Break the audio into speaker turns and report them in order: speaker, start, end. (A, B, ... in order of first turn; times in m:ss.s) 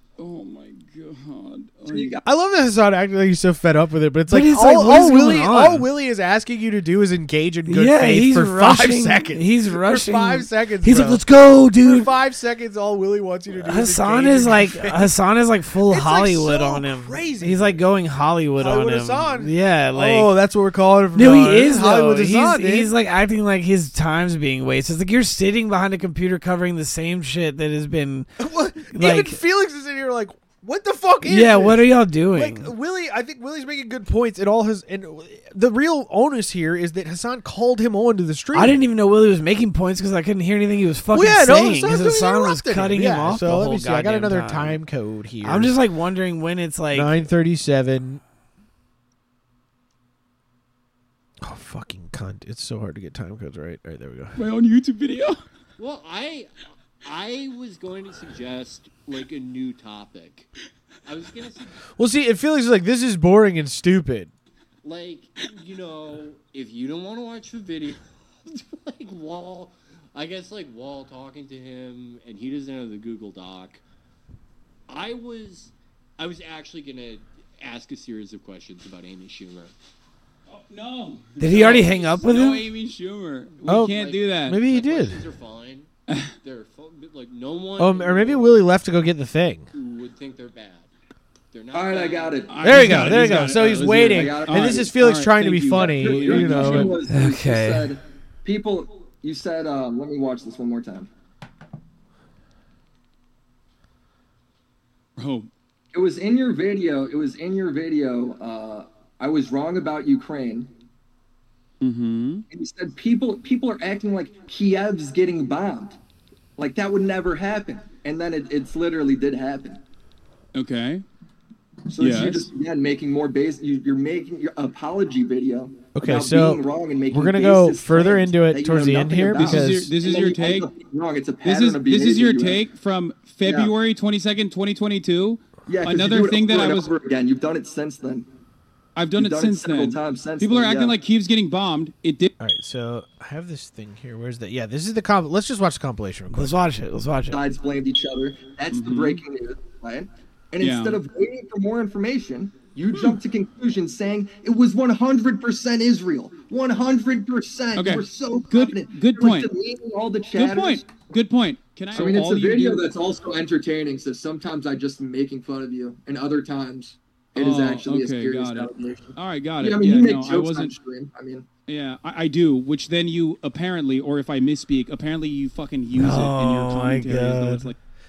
0:00.2-0:02.2 A
0:01.9-0:02.2 B
0:02.2-0:11.2 C
0:04.3-0:05.8 D
0:07.7-0:12.1 D
0:11.8-0:15.1 C
0:13.5-0:20.3 D
0:15.9-0:17.8 C
0:18.6-0:22.9 C
0:21.1-0:28.4 D
0:28.4-0:38.8 C
0:28.9-0:29.4 D
0:31.2-0:32.7 D
0:38.5-0:44.8 D
0:41.1-0:45.7 C
0:45.4-0:47.1 D
0:46.9-0:48.2 C
0:51.4-0:54.4 C
0:54.4-0:55.4 A
0:55.8-0:56.5 E
0:57.0-1:00.5 E
1:01.0-1:01.8 E
1:02.0-1:04.3 C
1:04.8-1:13.8 E
1:14.9-1:19.7 E
1:20.5-1:24.6 A
1:21.4-1:22.6 D
1:23.6-1:25.9 E
1:23.6-1:25.2 C
1:26.4-1:28.6 E
1:27.8-1:29.7 C
1:29.7-1:30.9 E
1:31.5-1:32.4 E
1:31.7-1:33.1 B
1:32.5-1:37.1 A
1:32.6-1:37.0 C
1:33.8-1:34.9 B
1:35.7-1:41.1 B
1:37.1-1:37.9 D
1:45.2-1:45.5 A
1:45.9-1:50.7 B
1:51.8-1:52.4 A
1:52.5-1:56.0 B
1:56.6-1:59.8 B
2:00.5-2:01.0 A
2:01.9-2:12.6 B
2:02.0-2:02.5 A
2:05.9-2:09.9 C
2:09.3-2:10.7 A
2:11.4-2:16.9 A
2:13.4-2:13.7 B
2:15.6-2:18.3 B
2:19.0-2:22.3 A
2:19.2-2:20.9 B
2:22.4-2:26.5 C
2:26.3-2:27.4 D
2:27.3-2:40.9 B
2:28.7-2:29.2 A
2:30.6-2:31.0 A
2:37.7-2:39.5 A
2:40.4-2:42.9 A
2:41.9-2:51.5 B
2:47.3-2:50.8 A
2:51.7-2:57.8 A
2:55.9-2:57.7 D